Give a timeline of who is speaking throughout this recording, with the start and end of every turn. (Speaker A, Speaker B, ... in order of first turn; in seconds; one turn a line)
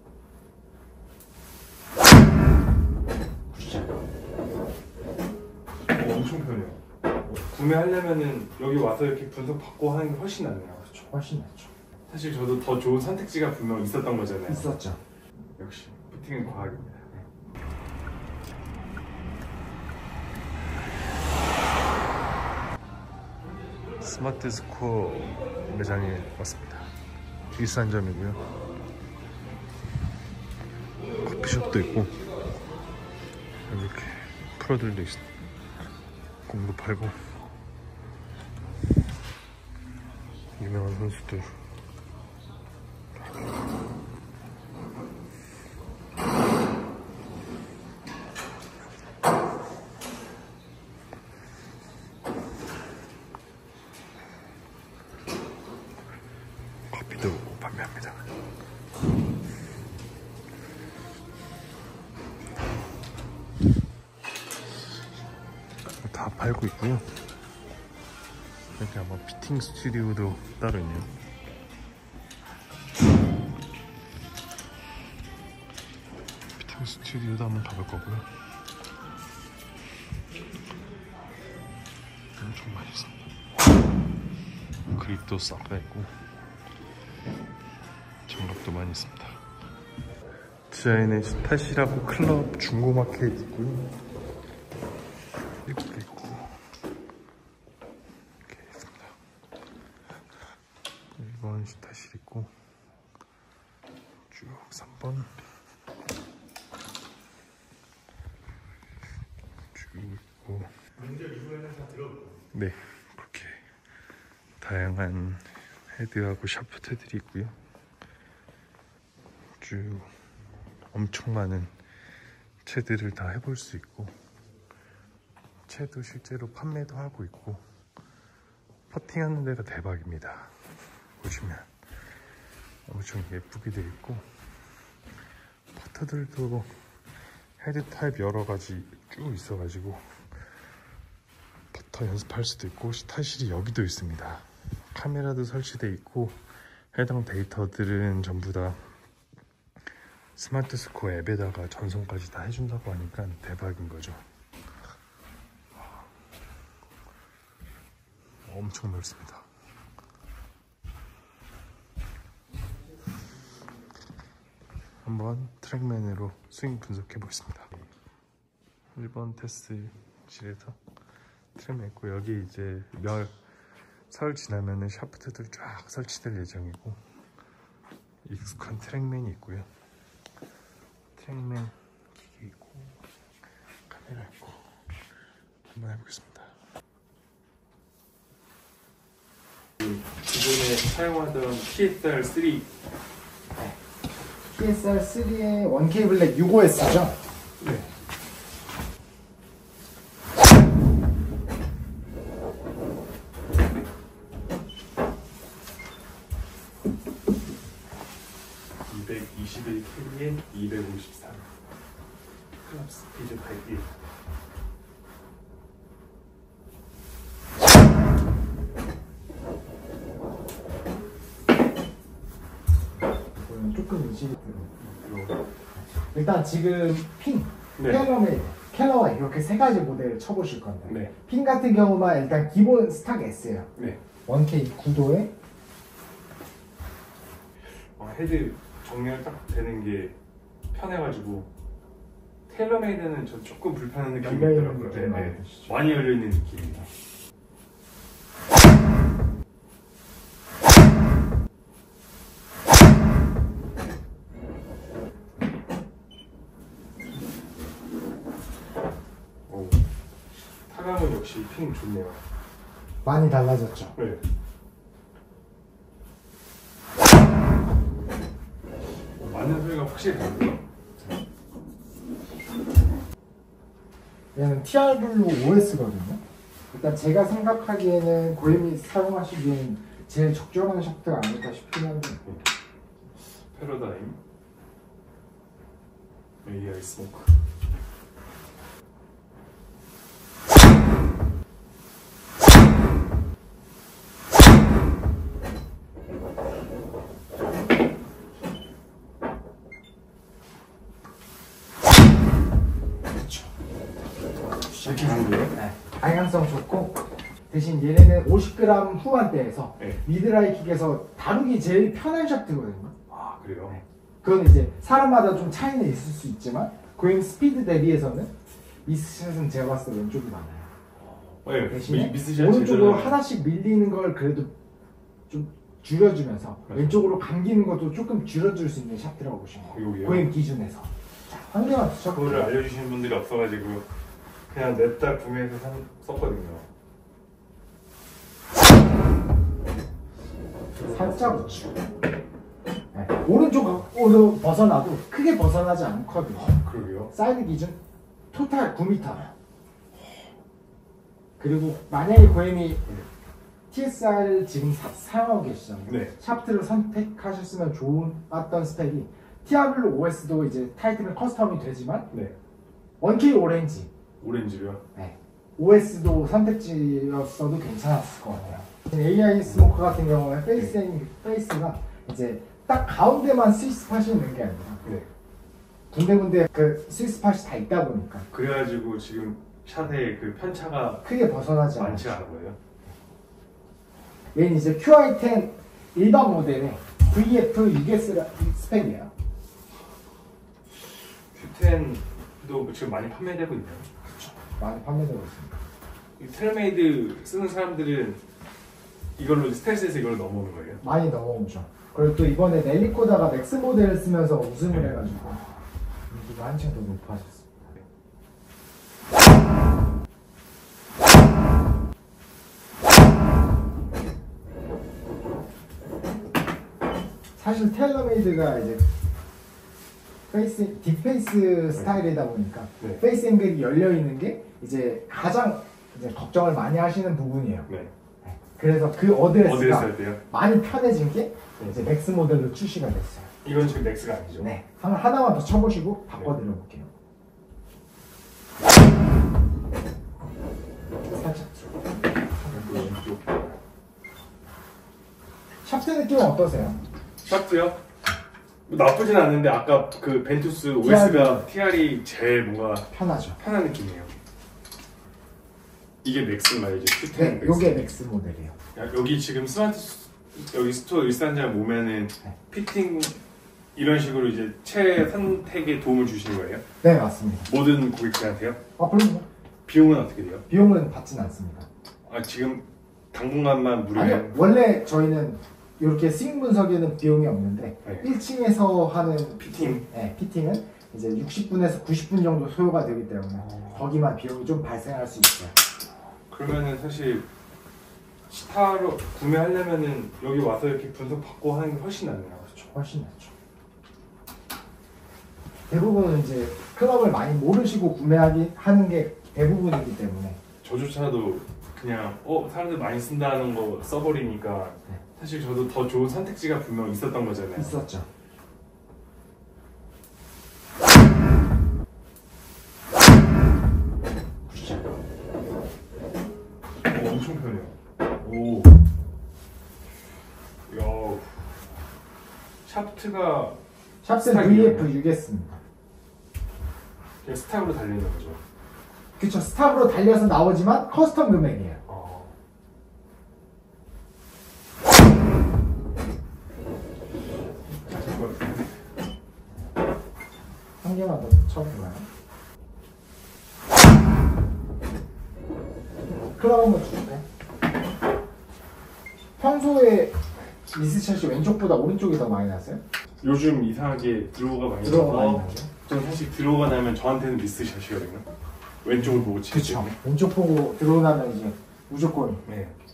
Speaker A: 3.5-4.0
Speaker B: 5.9-6.8
Speaker B: 7.5-10.9
Speaker A: 10.9-11.7
Speaker B: 12.1-14.6
Speaker A: 14.4-15.0
Speaker B: 15.6-17.0
Speaker B: 24.0-26.9
Speaker B: 27.6-28.4
Speaker B: 31.2-32.1
Speaker B: 33.7-35.2
Speaker B: 36.5-37.2
Speaker B: 40.6-41.5
Speaker B: 56.9-58.2
Speaker B: 66.0-67.1
Speaker B: 68.8-71.1
Speaker B: 76.6-78.3
Speaker B: 82.5-83.2
Speaker B: 85.0-86.1
Speaker B: 88.3-89.4
Speaker B: 90.7-93.9
Speaker B: 95.7-96.5
Speaker B: 98.5-99.1
Speaker B: 101.2-102.5
Speaker B: 104.3-105.3
Speaker B: 109.7-110.8
Speaker B: 112.5-113.6
Speaker B: 114.6-117.5
Speaker B: 119.6-120.1
Speaker B: 120.9-121.7
Speaker B: 122.6-124.2
Speaker B: 125.7-127.6
Speaker B: 128.9-130.5
Speaker B: 131.2-131.7
Speaker B: 132.9-134.2
Speaker B: 135.8-136.7
Speaker B: 137.6-140.1
Speaker B: 141.7-146.4
Speaker B: 146.9-148.8
Speaker B: 150.3-154.2
Speaker B: 158.5-159.4
Speaker B: 165.0-167.7
Speaker B: 168.9-170.7
Speaker B: 171.5-173.3
Speaker B: 174.1-177.0
Speaker B: 178.2-179.7
Speaker B: 181.2-181.7
Speaker B: 182.3-182.9
Speaker B: 185.8-186.5
Speaker B: 189.8-192.7
Speaker A: 194.5-197.2
Speaker B: 208.9-211.4
Speaker B: 212.7-213.8
Speaker A: 223.3-224.7
Speaker B: 224.8-225.4
Speaker A: 225.9-233.7
Speaker A: 234.2-235.3
Speaker B: 237.9-240.1
Speaker B: 240.7-241.5
Speaker B: 242.5-246.8
Speaker A: 244.2-245.9
Speaker B: 259.5-259.8
Speaker B: 260.7-262.2
Speaker A: 263.0-263.9
Speaker B: 263.9-264.2
Speaker B: 269.2-270.6
Speaker A: 274.3-282.2
Speaker B: 283.5-284.2
Speaker B: 286.4-287.3
Speaker A: 303.1-303.5
Speaker A: 304.7-312.9
Speaker B: 304.8-305.5
Speaker B: 313.1-313.7
Speaker A: 313.7-320.7
Speaker B: 321.4-323.2
Speaker A: 321.6-324.5
Speaker A: 325.3-332.6
Speaker B: 329.7-330.2
Speaker B: 332.1-333.9
Speaker B: 334.5-336.6
Speaker A: 340.8-341.7
Speaker A: 342.9-346.6
Speaker B: 346.6-347.1
Speaker A: 347.1-347.8
Speaker A: 348.3-349.3
Speaker A: 351.4-352.9
Speaker A: 353.7-362.1
Speaker B: 355.9-356.1
Speaker A: 363.0-363.9
Speaker B: 364.2-364.8
Speaker A: 364.9-374.8
Speaker A: 375.9-378.3
Speaker B: 378.3-381.0
Speaker A: 381.0-382.2
Speaker B: 381.8-382.6
Speaker A: 384.3-389.1
Speaker B: 391.3-393.9
Speaker A: 394.1-395.6
Speaker B: 396.2-398.2
Speaker B: 399.2-400.8
Speaker A: 400.8-405.4
Speaker A: 406.1-407.7
Speaker A: 417.4-418.8
Speaker A: 420.3-427.7
Speaker A: 428.2-433.3
Speaker B: 429.4-430.2
Speaker B: 433.4-434.5
Speaker A: 434.4-436.9
Speaker A: 441.1-443.0
Speaker B: 442.6-443.3
Speaker A: 445.6-446.8
Speaker B: 447.2-447.8
Speaker B: 448.7-454.1
Speaker A: 450.8-451.5
Speaker A: 452.9-453.4
Speaker B: 456.0-457.9
Speaker A: 457.1-458.6
Speaker B: 458.7-463.2
Speaker B: 463.7-466.6
Speaker A: 466.8-467.5
Speaker B: 467.4-468.6
Speaker A: 468.8-469.2
Speaker B: 469.6-470.4
Speaker A: 470.5-471.7
Speaker B: 472.1-474.4
Speaker A: 473.9-485.6
Speaker B: 479.4-479.8
Speaker B: 486.3-487.3
Speaker B: 488.3-492.6
Speaker A: 492.6-493.3
Speaker A: 495.7-500.4
Speaker B: 500.6-507.8
Speaker A: 507.5-508.1
Speaker A: 514.5-514.9
Speaker B: 516.9-518.7
Speaker B: 520.7-521.4
Speaker B: 522.6-523.6
Speaker A: 524.0-525.6
Speaker B: 524.2-524.9
Speaker B: 527.2-528.4
Speaker A: 529.2-531.8
Speaker B: 531.9-532.3
Speaker B: 537.9-538.7
Speaker A: 540.8-542.1
Speaker A: 546.1-547.2
Speaker A: 549.4-552.8
Speaker B: 553.2-558.3
Speaker A: 554.8-555.7
Speaker B: 558.8-559.9
Speaker A: 559.0-562.4
Speaker B: 562.5-562.7